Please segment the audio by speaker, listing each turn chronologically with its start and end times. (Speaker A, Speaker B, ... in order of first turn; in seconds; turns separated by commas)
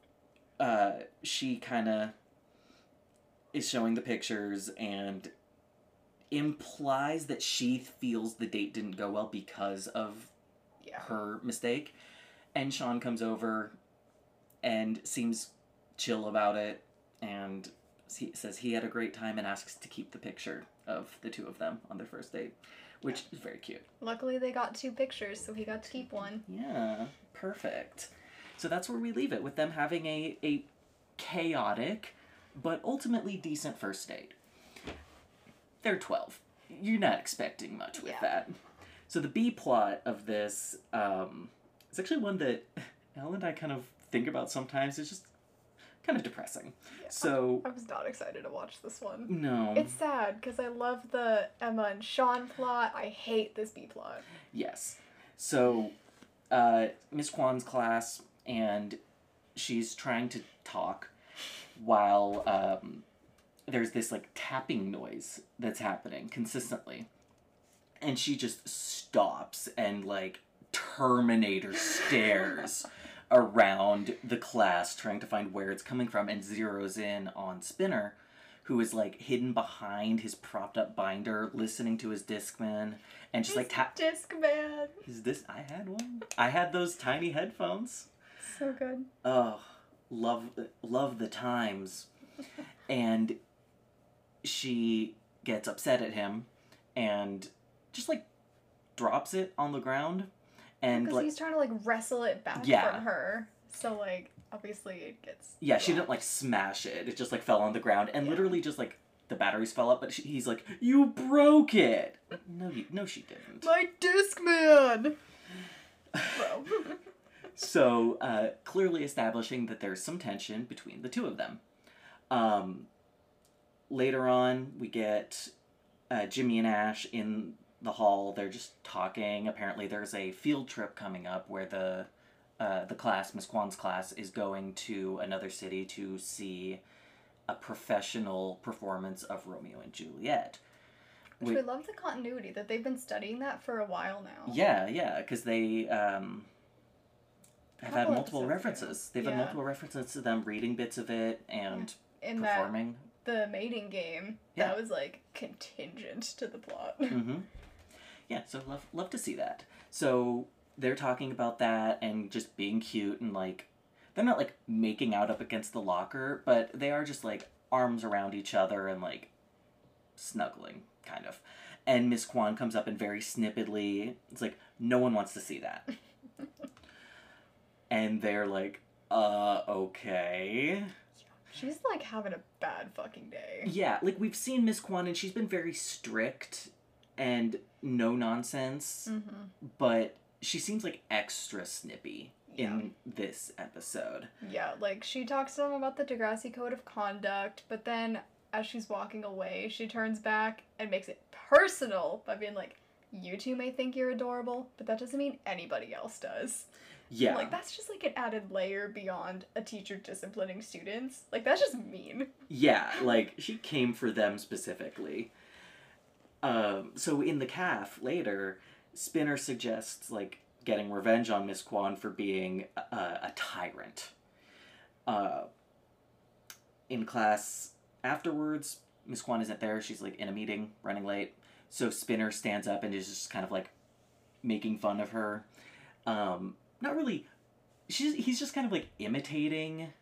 Speaker A: 0.6-2.1, Speaker A: 3.5-5.3, Speaker A: 6.3-10.3, Speaker B: 10.8-11.1, Speaker A: 11.0-11.9, Speaker A: 12.5-13.8, Speaker A: 14.6-23.8, Speaker B: 24.0-26.4, Speaker A: 26.4-34.4, Speaker A: 35.8-38.5, Speaker B: 38.0-38.3, Speaker A: 39.1-45.3, Speaker A: 46.0-47.6, Speaker B: 47.0-54.2, Speaker A: 49.3-50.0, Speaker A: 54.5-56.0, Speaker A: 56.5-59.0, Speaker A: 59.5-61.1, Speaker A: 61.8-63.0, Speaker A: 63.7-67.1, Speaker A: 68.0-84.0, Speaker B: 83.5-85.0, Speaker A: 85.0-88.1, Speaker B: 88.4-89.1, Speaker A: 89.2-92.1, Speaker A: 92.9-93.4, Speaker A: 94.4-98.2, Speaker A: 99.0-100.3, Speaker A: 100.8-101.3, Speaker B: 100.9-106.1, Speaker A: 102.5-103.0, Speaker A: 105.6-113.7, Speaker B: 108.2-108.5, Speaker B: 113.6-115.2, Speaker A: 116.1-116.6, Speaker B: 116.3-117.0, Speaker A: 117.5-121.6, Speaker A: 122.3-122.9, Speaker A: 123.9-125.5, Speaker A: 126.1-132.1, Speaker A: 132.6-136.8, Speaker A: 137.5-140.6, Speaker B: 141.4-144.6, Speaker A: 144.4-146.5, Speaker A: 147.8-153.1, Speaker B: 147.8-149.6, Speaker B: 151.7-157.2, Speaker A: 157.1-157.5, Speaker A: 158.3-169.3, Speaker A: 170.2-175.9, Speaker A: 177.9-180.9, Speaker B: 181.4-183.7, Speaker A: 183.6-194.3, Speaker B: 189.1-189.5, Speaker B: 192.5-192.9, Speaker B: 194.4-206.7, Speaker A: 207.1-207.6, Speaker B: 207.2-212.3, Speaker A: 212.5-215.3, Speaker A: 216.4-224.1, Speaker A: 225.1-225.5, Speaker A: 226.9-233.7, Speaker A: 234.4-235.4, Speaker A: 236.1-237.3, Speaker A: 237.9-239.9